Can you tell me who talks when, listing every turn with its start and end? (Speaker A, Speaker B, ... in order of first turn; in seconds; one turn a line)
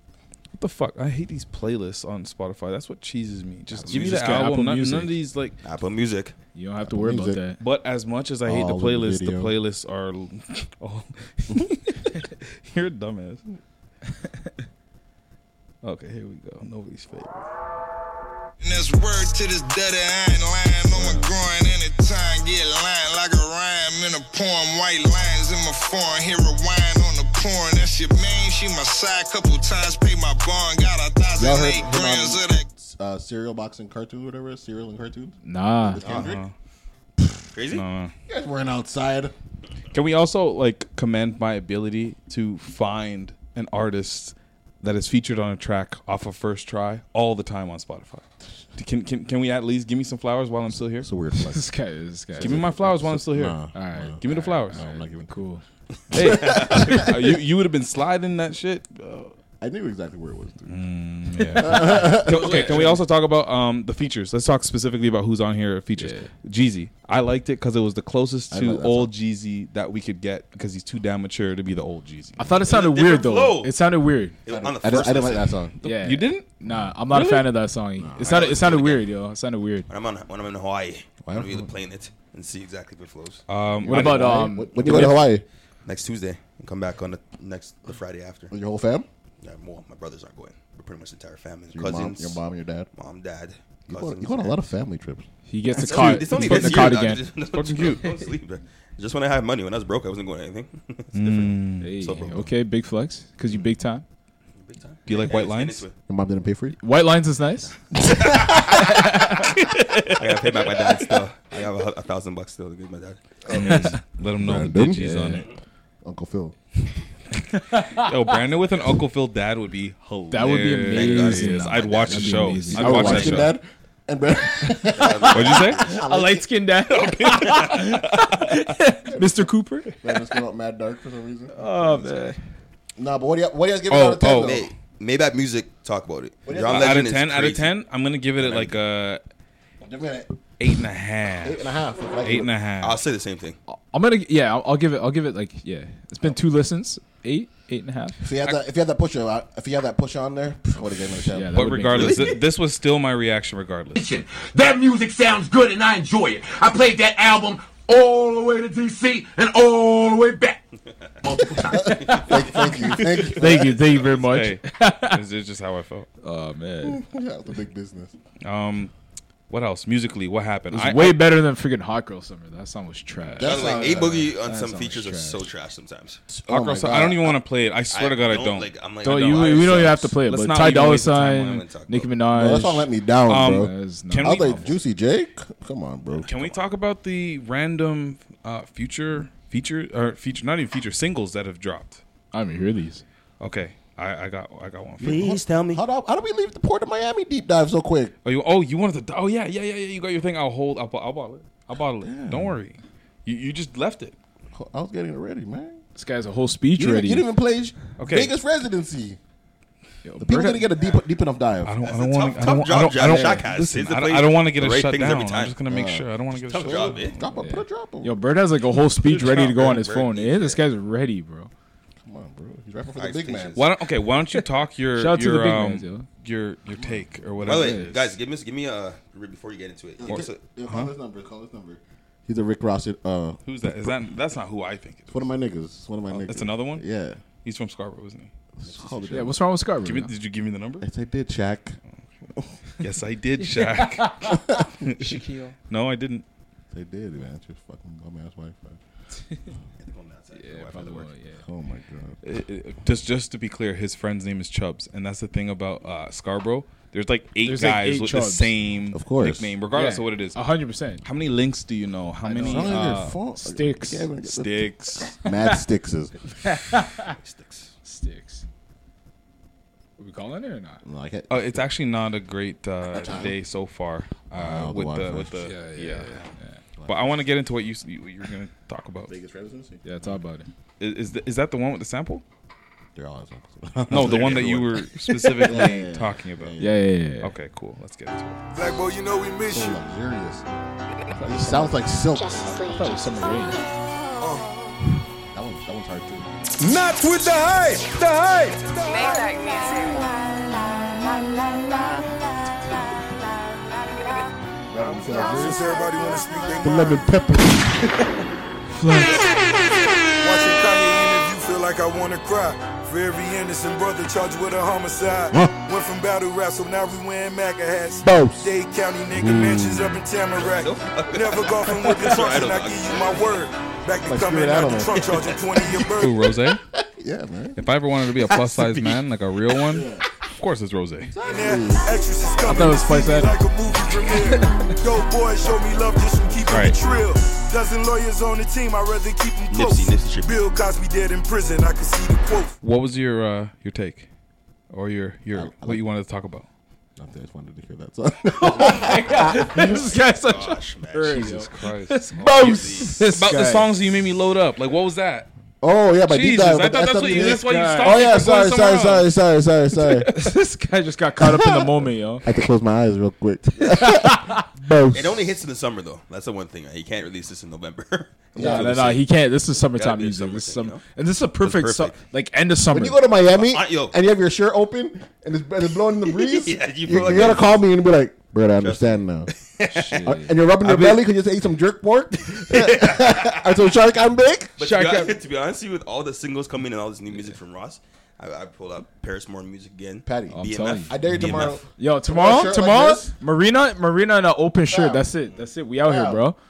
Speaker A: 0.6-5.6
Speaker B: 3.8-4.4
Speaker C: 3.9-5.2
Speaker B: 5.6-6.3
Speaker C: 6.5-7.6
Speaker D: 6.8-7.4
Speaker A: 7.6-13.6
Speaker D: 8.4-9.5
Speaker A: 15.8-17.5
Speaker E: 18.6-32.6
Speaker D: 20.9-21.3
Speaker D: 31.4-36.4
Speaker C: 35.4-36.0
Speaker A: 36.0-36.5
Speaker B: 37.5-37.8
Speaker A: 37.7-38.1
Speaker D: 38.3-39.3
Speaker A: 39.9-48.2
Speaker A: 48.8-51.1
Speaker D: 50.8-51.7
Speaker C: 51.3-52.7
Speaker D: 52.3-55.4
Speaker A: 52.4-53.6
Speaker C: 53.7-55.6
Speaker A: 54.2-54.8
Speaker A: 56.1-59.3
Speaker D: 56.2-57.1
Speaker B: 56.4-56.8
Speaker D: 59.6-60.8
Speaker A: 60.7-72.5
Speaker C: 61.3-62.9
Speaker D: 61.6-62.7
Speaker C: 66.0-66.3
Speaker D: 68.5-69.1
Speaker C: 72.4-74.3
Speaker B: 72.6-73.8
Speaker B: 74.5-75.5
Speaker D: 74.5-75.7
Speaker A: 75.8-76.5
Speaker C: 75.8-79.9
Speaker A: 77.1-77.5
Speaker D: 78.0-78.4
Speaker B: 78.2-79.1
Speaker B: 79.9-83.4
Speaker D: 81.2-81.7
Speaker A: 83.5-85.0
Speaker D: 83.8-85.4
Speaker C: 83.8-85.2
Speaker B: 85.8-88.5
Speaker D: 88.5-89.1
Speaker B: 89.4-92.4
Speaker D: 91.7-92.9
Speaker B: 92.9-94.6
Speaker D: 93.9-95.2
Speaker C: 95.5-97.2
Speaker B: 95.7-102.5
Speaker A: 96.3-97.0
Speaker A: 97.5-98.2
Speaker A: 101.1-101.9
Speaker C: 101.8-104.0
Speaker B: 104.6-105.9
Speaker A: 105.0-105.8
Speaker D: 106.1-106.8
Speaker C: 106.8-107.8
Speaker B: 108.3-108.6
Speaker C: 108.7-109.5
Speaker B: 110.1-113.3
Speaker A: 113.5-115.5
Speaker D: 113.5-113.8
Speaker C: 113.5-113.9
Speaker D: 114.4-115.0
Speaker C: 114.9-115.5
Speaker D: 116.0-116.5
Speaker A: 117.5-123.6
Speaker C: 117.6-118.1
Speaker C: 120.3-123.5
Speaker B: 120.9-122.8
Speaker D: 122.7-126.5
Speaker B: 125.0-125.9
Speaker A: 125.3-125.8
Speaker C: 125.8-130.0
Speaker A: 127.1-128.3
Speaker D: 130.0-131.7
Speaker C: 131.5-132.4
Speaker D: 133.0-134.6
Speaker A: 133.9-134.6
Speaker B: 134.4-137.8
Speaker D: 136.4-137.1
Speaker A: 136.5-139.2
Speaker D: 138.4-138.7
Speaker D: 139.8-140.3
Speaker A: 140.6-143.0
Speaker D: 141.4-142.5
Speaker B: 142.8-143.6
Speaker C: 143.7-148.2
Speaker D: 148.2-151.8
Speaker C: 151.3-152.3
Speaker A: 151.5-154.0
Speaker B: 151.9-152.4
Speaker F: 153.9-160.6
Speaker F: 161.2-162.0
Speaker D: 161.6-163.7
Speaker C: 162.1-162.5
Speaker C: 163.2-165.2
Speaker A: 164.2-166.1
Speaker C: 166.2-167.0
Speaker D: 166.8-168.1
Speaker A: 168.4-168.9
Speaker A: 169.5-171.3
Speaker C: 170.7-175.4
Speaker D: 173.4-174.2
Speaker B: 173.4-176.2
Speaker D: 176.3-177.4
Speaker A: 176.5-181.6
Speaker B: 177.9-179.9
Speaker C: 179.0-182.9
Speaker B: 181.3-182.1
Speaker D: 182.3-186.3
Speaker A: 183.3-184.7
Speaker C: 183.4-184.7
Speaker A: 186.2-192.0
Speaker C: 192.3-193.0
Speaker A: 193.4-195.3
Speaker B: 195.0-195.8
Speaker D: 195.0-198.1
Speaker A: 198.2-204.1
Speaker D: 202.0-202.6
Speaker D: 204.5-205.8
Speaker C: 205.9-207.3
Speaker D: 206.8-209.2
Speaker A: 208.0-208.3
Speaker C: 210.0-210.8
Speaker D: 210.2-211.7
Speaker A: 211.6-217.0
Speaker B: 211.8-215.6
Speaker C: 213.0-213.4
Speaker D: 215.7-218.2
Speaker B: 216.4-217.2
Speaker C: 217.4-221.5
Speaker B: 219.0-220.6
Speaker D: 222.0-223.6
Speaker B: 222.9-223.7
Speaker A: 223.6-228.1
Speaker C: 224.9-226.1
Speaker D: 226.7-227.3
Speaker B: 227.4-230.4
Speaker C: 227.5-227.9
Speaker D: 230.0-233.4
Speaker A: 230.1-230.9
Speaker A: 233.4-235.2
Speaker D: 235.1-237.2
Speaker A: 236.2-236.8
Speaker A: 237.4-238.3
Speaker D: 238.6-239.4
Speaker B: 238.7-239.2
Speaker C: 239.1-240.1
Speaker A: 239.8-240.9
Speaker D: 240.8-241.8
Speaker A: 242.8-246.2
Speaker C: 243.4-244.4
Speaker D: 244.2-244.7
Speaker C: 245.0-245.5
Speaker D: 246.7-248.8
Speaker B: 249.8-251.1
Speaker C: 250.3-251.4
Speaker D: 251.4-252.2
Speaker A: 252.2-260.4
Speaker C: 257.4-258.5
Speaker D: 258.9-259.5
Speaker C: 259.7-261.0
Speaker A: 261.0-263.1
Speaker C: 262.2-264.1
Speaker D: 262.4-266.1
Speaker A: 264.2-265.1
Speaker C: 266.4-267.1
Speaker B: 267.2-267.7
Speaker C: 267.8-268.4
Speaker C: 270.0-270.8
Speaker D: 270.8-271.7
Speaker A: 271.3-276.2
Speaker D: 272.9-273.4
Speaker D: 274.3-275.5
Speaker C: 275.4-276.6
Speaker D: 276.8-277.1
Speaker A: 276.9-279.1
Speaker D: 279.1-279.8
Speaker C: 279.8-280.5
Speaker A: 280.8-282.2
Speaker D: 282.9-286.8
Speaker A: 283.9-286.6
Speaker B: 284.0-284.5
Speaker C: 286.6-287.3
Speaker A: 287.2-288.4
Speaker G: 288.5-289.8
Speaker D: 289.4-290.4
Speaker C: 291.2-291.7
Speaker D: 291.2-292.5
Speaker C: 292.4-293.6
Speaker G: 294.2-294.6
Speaker D: 295.3-296.3
Speaker G: 296.6-299.9
Speaker D: 304.7-305.9
Speaker G: 304.8-307.1
Speaker D: 306.6-307.9
Speaker C: 308.7-309.3
Speaker G: 310.2-326.3
Speaker D: 315.3-315.6
Speaker D: 318.0-318.5
Speaker D: 319.4-319.7
Speaker B: 320.4-323.4
Speaker D: 324.1-325.1
Speaker A: 325.8-326.6
Speaker D: 326.7-327.6
Speaker A: 327.6-331.1
Speaker B: 328.3-329.0
Speaker D: 329.7-330.0
Speaker D: 331.1-332.0
Speaker G: 331.2-342.6
Speaker C: 332.4-333.4
Speaker C: 333.9-334.7
Speaker D: 336.3-336.7
Speaker A: 336.5-336.8
Speaker B: 339.5-340.4
Speaker A: 342.6-344.1
Speaker A: 344.7-346.4
Speaker D: 345.3-345.8
Speaker D: 347.0-349.9
Speaker C: 348.4-353.7
Speaker B: 349.6-351.4
Speaker A: 351.1-352.6
Speaker D: 352.2-352.9
Speaker B: 352.2-353.0
Speaker A: 353.1-355.3
Speaker D: 355.6-360.1
Speaker A: 356.1-359.1
Speaker C: 357.1-358.2
Speaker A: 359.8-360.3
Speaker C: 360.1-362.2
Speaker D: 361.2-361.7
Speaker D: 362.2-365.2
Speaker C: 363.6-364.4
Speaker B: 364.9-370.8
Speaker D: 368.3-368.7
Speaker C: 368.4-373.0
Speaker B: 371.4-372.0
Speaker D: 372.7-379.3
Speaker B: 373.3-374.0
Speaker B: 376.2-377.6
Speaker B: 378.6-380.0
Speaker C: 379.7-380.3
Speaker D: 380.0-384.5
Speaker B: 380.6-381.0
Speaker B: 382.4-383.5
Speaker B: 384.6-391.6
Speaker C: 384.6-385.2
Speaker D: 390.0-393.1
Speaker C: 390.3-391.0
Speaker C: 391.8-396.4
Speaker D: 394.7-395.1
Speaker D: 395.8-396.3